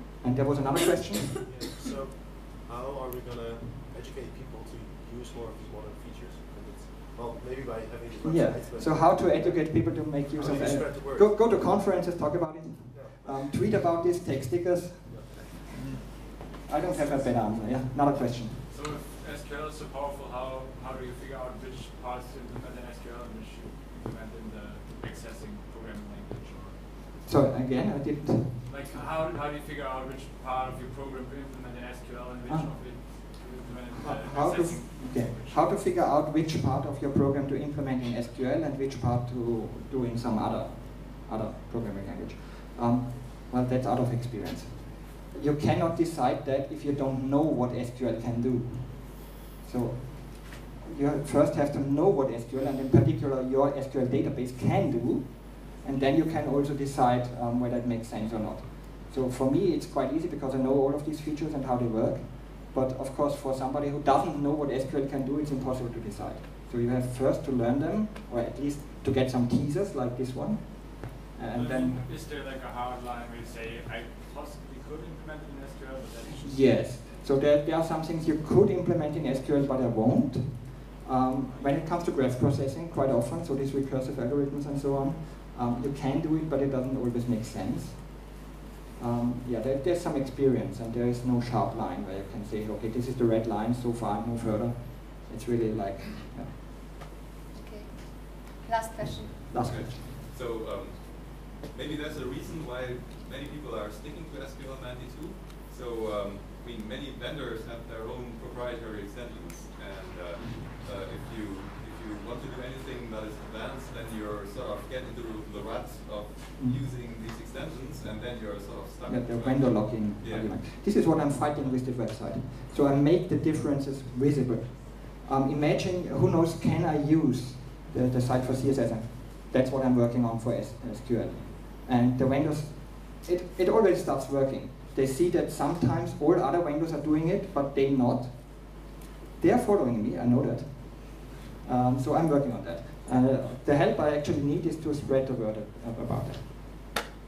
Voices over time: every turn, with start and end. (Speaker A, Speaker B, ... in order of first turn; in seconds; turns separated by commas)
Speaker A: 0.2-1.3, Speaker B: 1.5-11.8, Speaker A: 8.2-15.5, Speaker B: 12.9-13.5, Speaker B: 15.1-15.5, Speaker A: 16.7-18.6, Speaker C: 18.6-27.0, Speaker A: 27.2-28.7, Speaker C: 28.6-36.0, Speaker A: 32.5-33.3, Speaker A: 33.9-72.0, Speaker C: 71.5-77.0, Speaker A: 76.3-88.3, Speaker A: 89.0-96.5, Speaker D: 97.5-99.5, Speaker A: 99.5-100.0, Speaker E: 99.5-120.6, Speaker A: 116.6-116.9, Speaker A: 119.0-138.8, Speaker A: 139.4-146.5